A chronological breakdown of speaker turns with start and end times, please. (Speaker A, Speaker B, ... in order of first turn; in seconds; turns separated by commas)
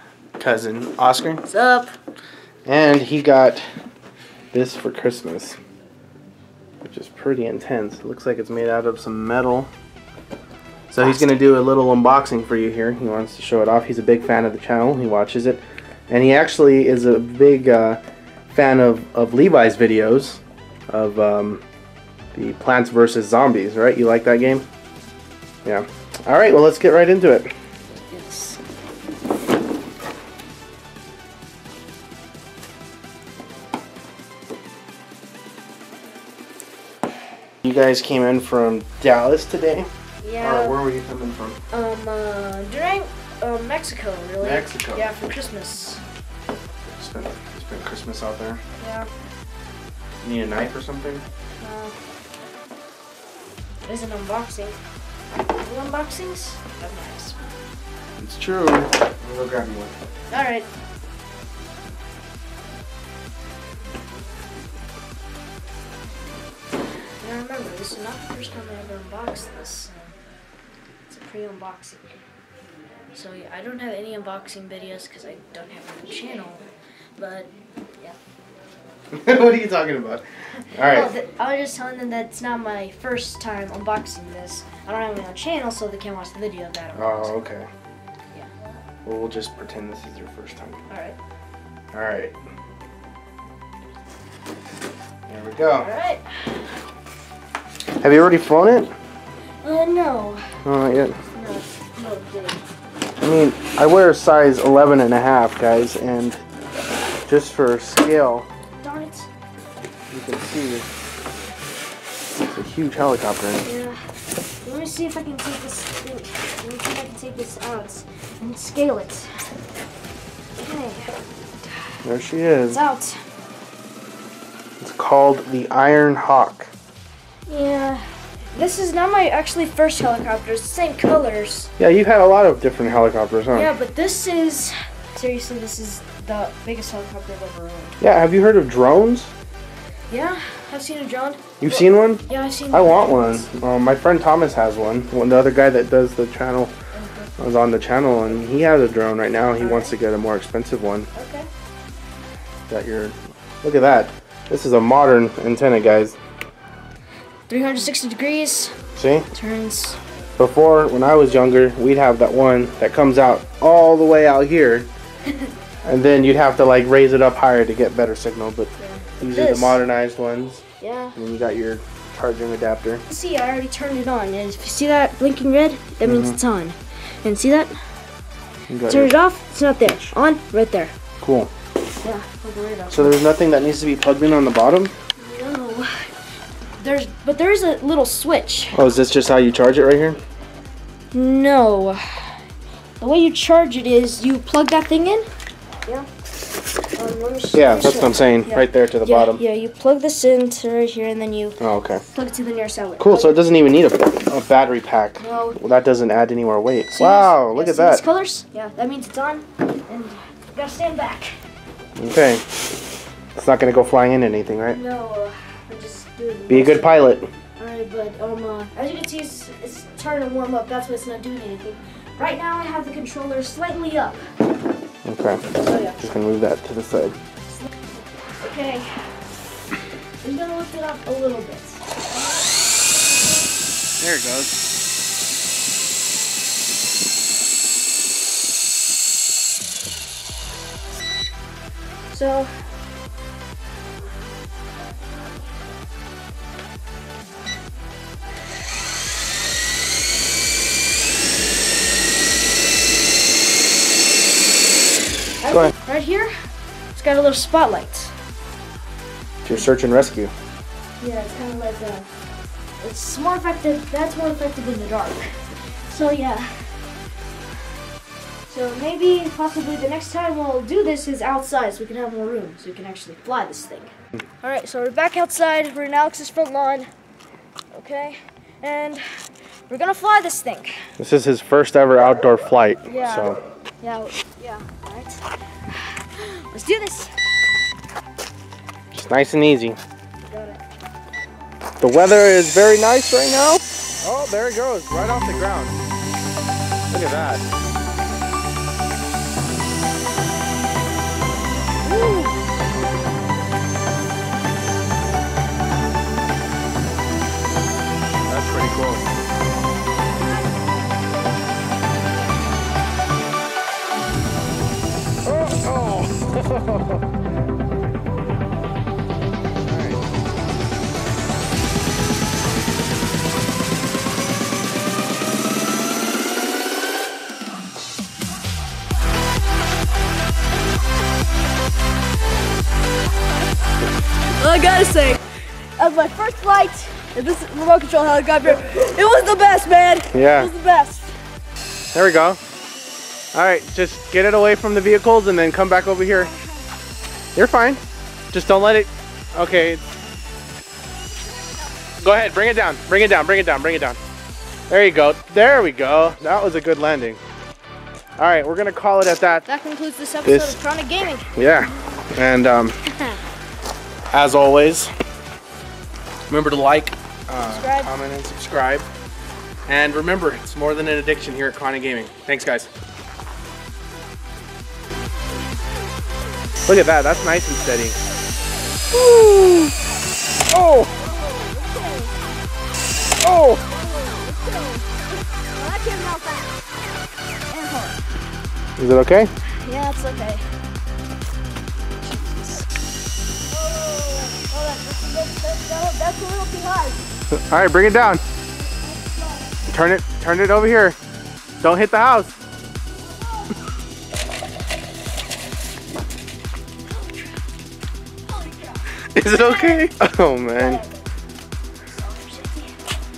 Speaker A: 0.4-1.4, Speaker B: 1.4-1.9, Speaker A: 2.7-3.6, Speaker A: 4.5-5.6, Speaker A: 6.8-9.7, Speaker A: 10.9-18.0, Speaker A: 18.5-21.6, Speaker A: 22.3-24.7, Speaker A: 25.6-27.5, Speaker B: 27.9-28.6, Speaker A: 37.6-39.9, Speaker B: 40.2-40.8, Speaker A: 40.4-41.6, Speaker B: 41.7-46.0, Speaker A: 44.4-45.1, Speaker A: 46.9-48.6, Speaker B: 48.8-49.1, Speaker A: 50.2-51.2, Speaker B: 51.6-52.0, Speaker B: 53.8-54.8, Speaker B: 55.5-57.4, Speaker A: 58.2-59.9, Speaker B: 60.3-60.7, Speaker B: 67.2-70.2, Speaker B: 71.1-72.1, Speaker B: 73.2-76.7, Speaker B: 77.2-78.2, Speaker A: 79.1-81.1, Speaker B: 80.8-87.3, Speaker A: 87.0-87.7, Speaker A: 89.1-90.8, Speaker B: 90.9-91.2, Speaker A: 91.9-92.3, Speaker A: 95.3-95.9, Speaker B: 95.8-96.7, Speaker A: 98.0-98.9, Speaker B: 99.6-100.6, Speaker A: 100.7-101.2, Speaker B: 101.2-102.6, Speaker A: 103.2-106.4, Speaker A: 107.3-108.5, Speaker B: 108.8-109.3, Speaker A: 110.1-110.9, Speaker A: 112.5-113.7, Speaker B: 113.6-114.0, Speaker B: 114.6-119.5, Speaker B: 120.6-121.7, Speaker A: 122.0-122.8, Speaker B: 122.7-123.2, Speaker A: 124.8-126.7, Speaker B: 127.5-131.7, Speaker A: 131.8-133.7, Speaker B: 133.5-138.0, Speaker A: 138.0-139.3, Speaker B: 140.1-143.5, Speaker A: 141.6-146.7, Speaker B: 146.9-147.3, Speaker A: 147.4-151.1, Speaker B: 149.6-149.9, Speaker B: 151.1-151.5, Speaker A: 152.7-156.2, Speaker B: 157.5-158.8, Speaker A: 159.0-159.3, Speaker B: 159.3-160.0, Speaker A: 160.4-164.9, Speaker A: 165.8-170.6, Speaker B: 168.8-169.8, Speaker B: 170.8-171.2, Speaker A: 171.2-173.0, Speaker B: 173.1-177.7, Speaker A: 176.0-176.4, Speaker A: 178.7-179.1, Speaker B: 178.9-180.9, Speaker A: 179.8-180.1, Speaker A: 181.2-181.5, Speaker B: 182.0-183.2, Speaker A: 182.9-184.9, Speaker B: 185.2-186.1, Speaker B: 186.8-188.8, Speaker A: 188.7-190.2, Speaker B: 191.1-192.4, Speaker B: 193.0-195.3, Speaker B: 197.0-201.6, Speaker A: 197.5-199.4, Speaker A: 201.6-202.0, Speaker B: 202.1-203.4, Speaker A: 203.0-208.0, Speaker B: 205.2-205.6, Speaker B: 206.9-211.4, Speaker A: 212.0-212.4, Speaker A: 213.3-214.8, Speaker B: 214.7-217.0, Speaker A: 216.5-217.3, Speaker B: 217.6-224.2, Speaker A: 225.1-227.2, Speaker B: 225.6-226.0, Speaker B: 228.4-229.2, Speaker B: 230.2-232.0, Speaker A: 234.0-234.6, Speaker B: 242.1-242.5, Speaker B: 255.4-256.3, Speaker B: 256.9-258.1, Speaker A: 259.4-260.3, Speaker B: 261.0-262.1, Speaker B: 262.8-266.8, Speaker B: 268.5-276.9, Speaker B: 277.7-279.1, Speaker B: 279.7-280.9, Speaker A: 281.0-283.4, Speaker B: 282.9-287.1, Speaker A: 288.9-289.8, Speaker B: 290.3-290.6, Speaker A: 291.8-295.8, Speaker A: 296.9-297.4, Speaker A: 301.9-302.4, Speaker A: 308.3-309.1, Speaker A: 315.2-317.0, Speaker A: 319.6-320.0, Speaker B: 334.3-341.1, Speaker A: 340.1-340.5, Speaker A: 341.9-342.4, Speaker A: 343.3-346.3, Speaker B: 346.1-346.6, Speaker A: 347.4-347.8, Speaker A: 348.3-349.8, Speaker A: 352.0-354.0, Speaker A: 354.7-357.2, Speaker A: 358.2-359.4, Speaker B: 359.5-361.3, Speaker A: 360.2-360.6, Speaker A: 361.3-362.8, Speaker A: 364.1-364.9, Speaker A: 366.3-368.9, Speaker B: 367.5-367.9, Speaker A: 369.7-372.7, Speaker A: 376.6-378.0, Speaker A: 378.9-379.7, Speaker A: 380.5-380.9, Speaker B: 381.0-382.1, Speaker A: 383.2-383.6, Speaker B: 383.7-386.6, Speaker B: 387.5-388.0, Speaker A: 388.8-389.3, Speaker B: 389.6-390.4, Speaker B: 392.0-392.7, Speaker B: 393.5-397.0, Speaker A: 397.3-398.2, Speaker B: 398.7-399.5, Speaker A: 399.7-401.0, Speaker A: 401.6-402.4, Speaker B: 403.4-403.6, Speaker B: 406.9-407.5, Speaker B: 408.3-409.9, Speaker A: 409.1-410.8, Speaker B: 410.6-411.0, Speaker B: 411.9-412.7